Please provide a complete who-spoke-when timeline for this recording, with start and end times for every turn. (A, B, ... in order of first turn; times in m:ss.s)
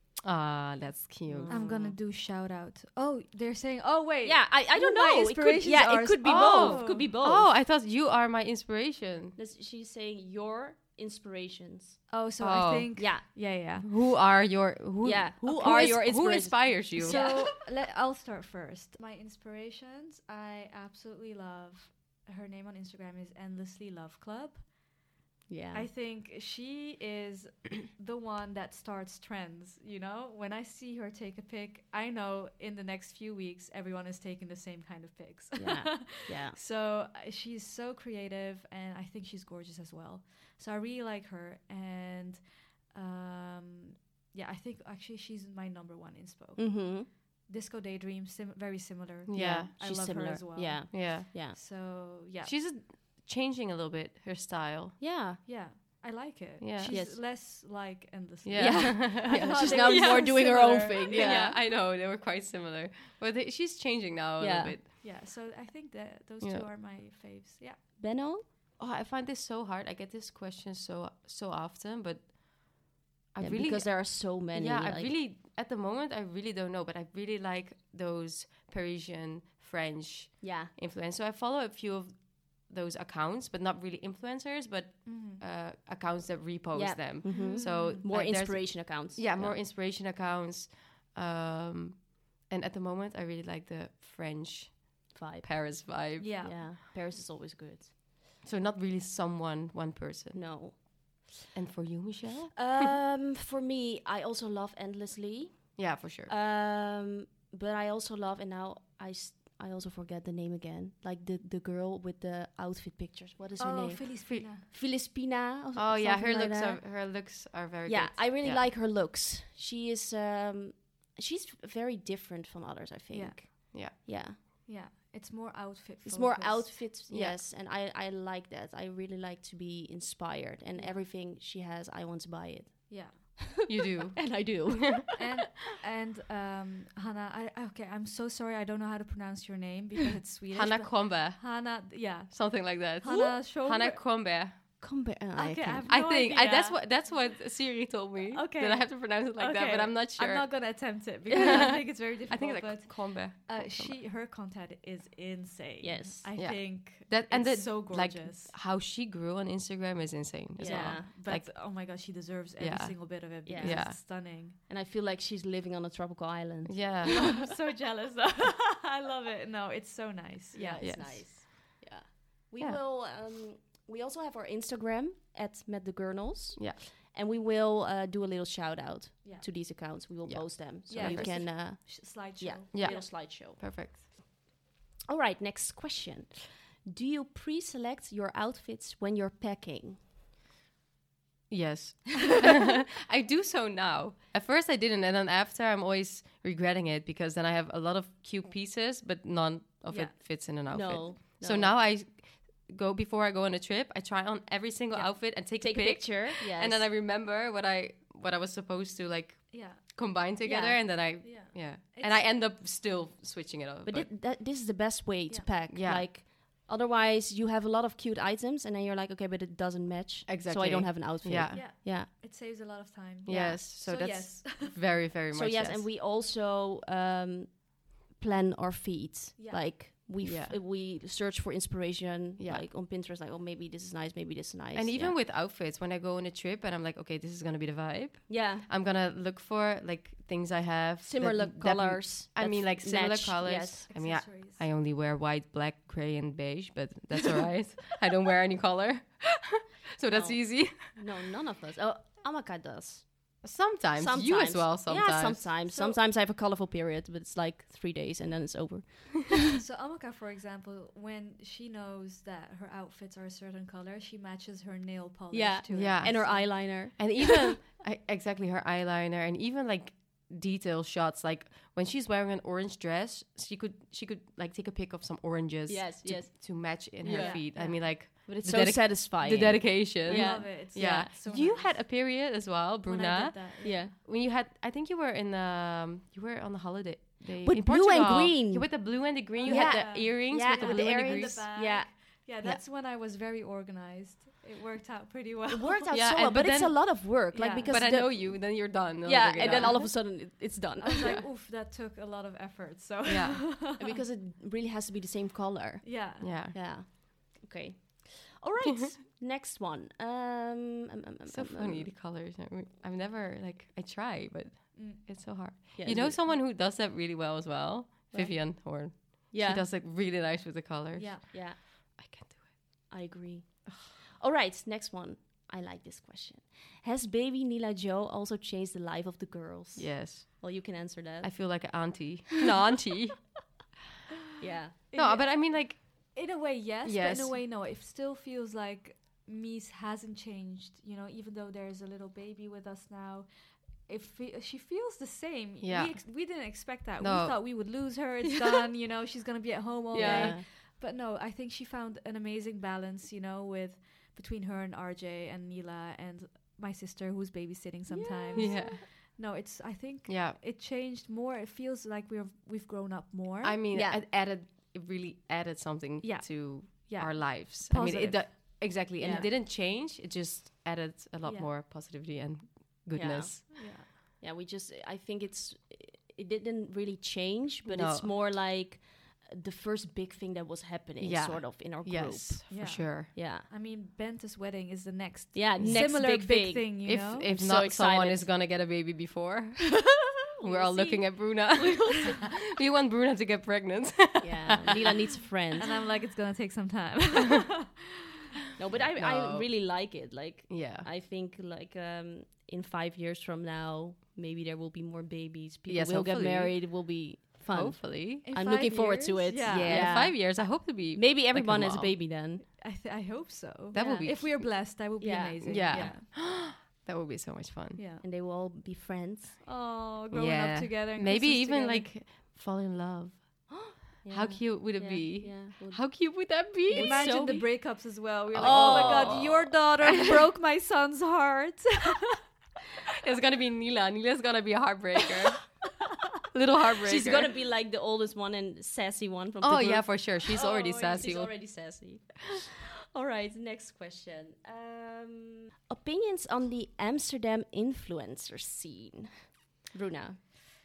0:00.2-0:01.7 A
0:01.3-0:02.0 B
0:01.5-0:07.1 C
0:04.2-0:07.5 B
0:06.2-0:09.4 A
0:09.4-0:12.1 B
0:12.1-0:13.9 C
0:12.4-0:17.4 A
0:13.0-0:13.2 B
0:15.0-0:17.5 B
0:17.0-0:24.9 C
0:25.5-0:25.9 B
0:25.7-0:52.5 C
0:35.5-0:36.6 B
0:46.6-0:47.1 B
0:49.3-0:49.7 A
0:49.3-0:51.6 B
0:50.9-0:51.3 A
0:52.4-0:55.0 A
0:55.0-0:55.4 B
0:55.4-1:01.6 C
0:56.6-0:57.0 A
0:56.9-0:57.2 B
0:58.4-1:04.9 A
0:58.6-1:01.6 B
1:04.4-1:04.8 B
1:05.0-1:07.8 C
1:06.4-1:06.7 A
1:08.0-1:08.4 B
1:08.8-1:36.6 A
1:13.4-1:15.2 B
1:20.4-1:20.7 B
1:25.0-1:25.4 C
1:26.7-1:29.6 B
1:27.3-1:28.0 C
1:35.1-1:37.9 B
1:36.2-1:36.7 C
1:38.4-1:40.8 A
1:40.3-1:41.3 B
1:41.5-1:42.9 A
1:42.5-1:57.2 B
1:45.8-1:46.3 A
1:53.6-1:54.6 C
1:55.7-1:58.6 A
1:57.8-2:04.4 B
2:03.1-2:06.8 C
2:06.0-2:15.2 B
2:07.1-2:07.4 A
2:10.7-2:11.0 C
2:12.9-2:13.2 C
2:13.6-2:15.0 A
2:15.2-2:24.0 C
2:20.5-2:24.6 A
2:23.0-2:23.4 B
2:24.8-2:25.9 B
2:25.3-2:27.0 C
2:25.9-2:30.6 A
2:28.3-2:38.5 C
2:31.3-2:31.7 B
2:31.3-2:34.0 A
2:35.8-2:36.3 B
2:36.4-2:41.6 A
2:40.6-2:41.1 B
2:40.6-2:44.6 C
2:42.6-2:44.0 A
2:43.4-2:44.0 B
2:44.7-2:47.5 B
2:46.6-2:47.4 A
2:47.1-2:51.2 C
2:50.5-3:03.6 B
2:50.8-2:51.6 A
3:00.2-3:01.5 A
3:00.9-3:03.1 C
3:02.7-3:04.0 A
3:05.1-3:10.0 B
3:11.5-3:34.1 A
3:19.9-3:20.1 C
3:20.7-3:21.7 B
3:25.5-3:26.9 B
3:29.5-3:29.8 C
3:30.4-3:30.8 B
3:31.2-3:32.3 C
3:33.8-3:42.1 B
3:35.7-3:36.1 A
3:40.3-3:41.7 A
3:41.5-3:44.7 C
3:43.2-3:45.8 A
3:43.3-3:43.6 B
3:45.3-3:55.2 B
3:49.4-3:49.7 C
3:50.2-3:50.5 A
3:52.4-3:52.7 A
3:54.7-4:11.0 A
3:58.3-3:58.6 B
4:01.0-4:03.9 B
4:03.9-4:04.7 C
4:10.1-4:13.4 B
4:13.4-4:15.5 A
4:14.0-4:19.3 B
4:15.7-4:16.0 C
4:19.5-4:26.6 C
4:25.3-4:27.6 B
4:25.7-4:51.5 A
4:35.7-4:41.0 B
4:37.1-4:37.9 C
4:40.0-4:42.0 C
4:42.8-4:43.9 C
4:43.6-4:43.9 B
4:47.4-4:52.0 B
4:49.4-4:55.9 C
4:55.5-5:01.2 B
4:55.9-4:57.1 A
4:57.3-4:57.8 C
4:57.6-4:59.9 A
4:59.5-5:00.0 C
5:00.8-5:04.0 C
5:03.0-5:03.5 A
5:03.7-5:11.9 B
5:05.8-5:06.3 C
5:06.2-5:06.6 A
5:11.3-5:22.6 A
5:14.7-5:15.0 C
5:15.7-5:16.2 B
5:18.1-5:19.6 B
5:20.9-5:21.2 C
5:21.3-5:22.0 B
5:22.9-5:31.8 B
5:29.8-5:30.5 A
5:31.2-5:33.3 A
5:34.4-5:34.8 B
5:34.9-6:03.6 C
5:34.9-5:36.1 A
5:36.8-5:37.4 A
5:45.6-5:46.1 A
5:47.0-5:47.4 A
5:49.9-5:50.4 B
5:49.9-5:50.4 A
5:57.9-5:58.8 B
5:58.3-5:58.8 A
6:00.0-6:00.4 A
6:03.4-6:13.5 A
6:03.7-6:04.0 B
6:06.0-6:09.3 C
6:09.0-6:09.3 B
6:11.2-6:11.5 C
6:12.9-6:23.5 B
6:13.5-6:13.9 C
6:17.7-6:18.1 A
6:21.0-6:23.1 A
6:22.5-6:27.3 C
6:25.3-6:28.3 B
6:25.6-6:25.8 A
6:26.8-6:34.9 A
6:30.4-6:32.2 B
6:34.2-6:35.7 B
6:35.6-6:37.9 C
6:38.6-6:52.4 B
6:38.7-6:39.6 A
6:40.5-6:40.9 A
6:45.7-6:48.2 A
6:48.2-6:50.1 C
6:49.4-6:51.9 A
6:52.5-6:56.0 C
6:53.7-6:54.5 A
6:53.7-6:54.4 B
6:55.0-6:56.0 B
6:55.4-6:57.8 A
6:57.8-6:58.0 C
6:58.0-6:59.4 B
6:59.4-7:01.9 C
7:00.1-7:07.2 A
7:03.5-7:09.5 B
7:06.7-7:12.2 C
7:08.3-7:09.5 A
7:13.0-7:15.6 A
7:16.3-7:17.3 A
7:16.8-7:30.2 B
7:19.4-7:21.4 A